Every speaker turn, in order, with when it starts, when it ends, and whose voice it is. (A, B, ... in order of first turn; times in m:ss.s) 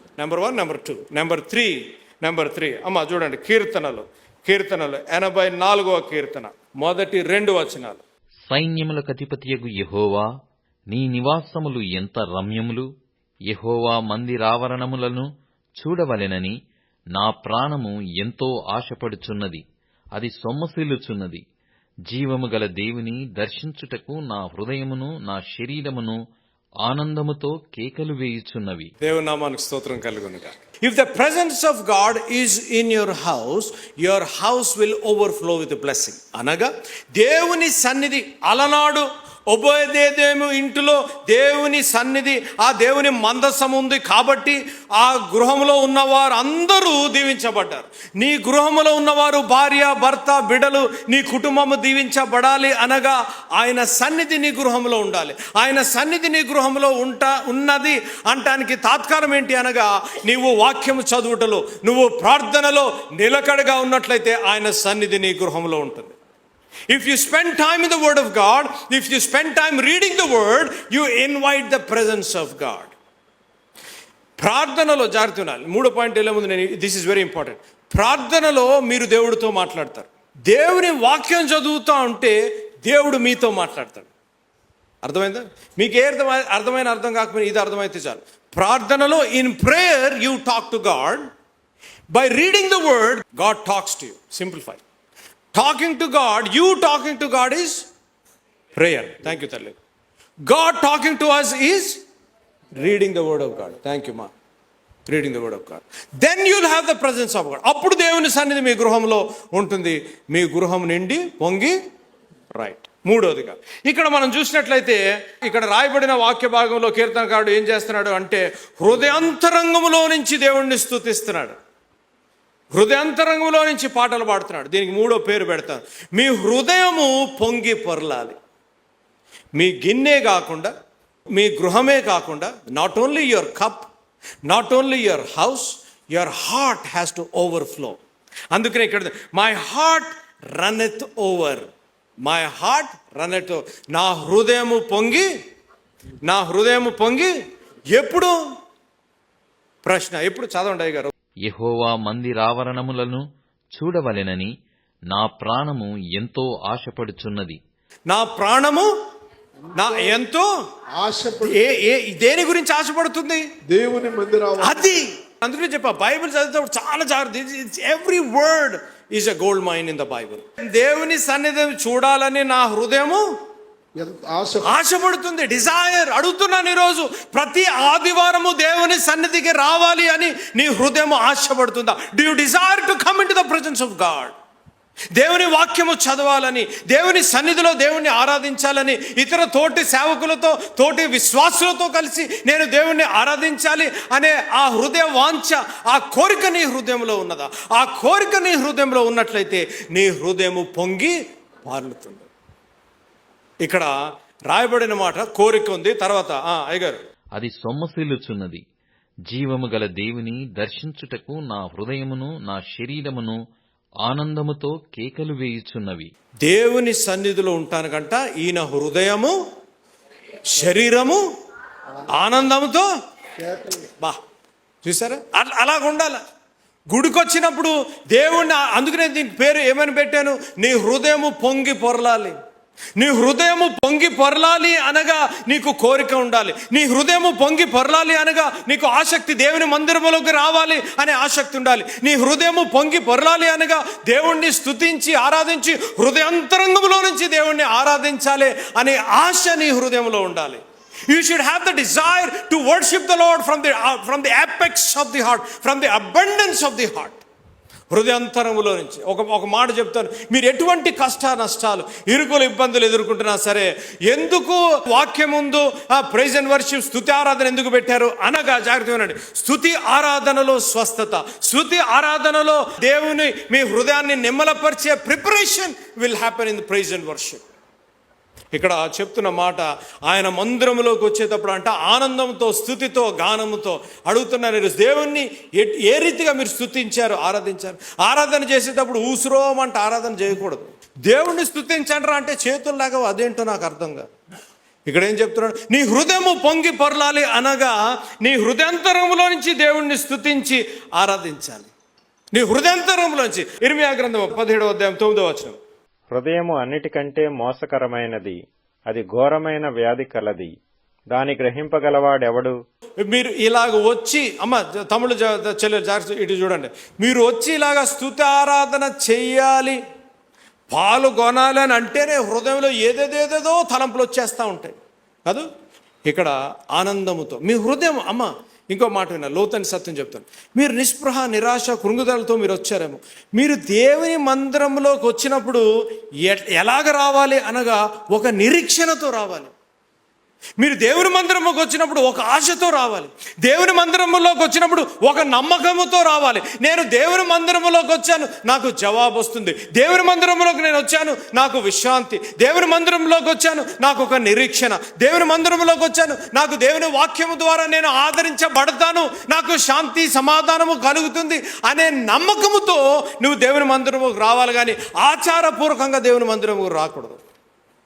0:00.2-0:08.0 A
0:08.5-0:10.3 B
0:10.9-0:12.9 B
0:13.5-0:16.6 B
0:17.2-0:19.6 B
0:20.2-0:21.4 B
0:22.1-0:26.2 B
0:26.8-0:28.9 B
0:29.0-1:06.2 A
1:06.9-1:12.9 A
1:14.4-1:24.1 A
1:25.0-1:31.3 A
1:32.1-1:34.8 A
1:35.5-1:37.9 A
1:38.8-1:39.8 A
1:40.5-1:42.0 A
1:42.8-1:44.3 A
1:45.1-1:51.8 A
1:52.5-2:01.6 A
2:02.7-2:08.4 A
2:09.6-2:10.7 A
2:11.3-2:13.9 A
2:14.5-2:18.0 A
2:18.5-2:21.7 A
2:22.2-2:25.3 A
2:26.2-2:27.3 A
2:27.9-2:28.4 A
2:29.8-2:31.1 A
2:31.4-2:34.5 B
2:35.1-2:37.6 B
2:38.1-2:38.9 A
2:39.7-2:40.2 C
2:39.8-2:40.5 A
2:41.0-2:41.7 C
2:41.4-2:43.5 A
2:43.7-2:45.1 C
2:44.6-2:53.2 A
2:54.0-2:54.8 C
2:54.6-3:04.4 A
3:05.2-3:22.3 A
3:23.6-3:23.9 A
3:24.5-3:27.0 A
3:27.4-3:28.6 B
3:29.3-3:33.4 B
3:34.0-3:36.1 B
3:36.4-3:39.4 A
3:40.5-3:41.2 A
3:42.1-3:42.9 A
3:43.4-3:43.9 C
3:44.8-3:46.2 A
3:46.9-3:52.4 A
3:53.0-4:17.2 A
4:17.9-4:37.4 A
4:38.5-4:54.1 A
4:54.9-5:01.7 A
5:02.3-5:05.6 A
5:06.1-5:08.4 D
5:08.9-5:10.5 D
5:11.1-5:12.6 D
5:13.0-5:19.8 A
5:20.7-5:24.8 A
5:26.1-5:35.6 A
5:36.2-5:39.5 A
5:40.6-6:07.2 A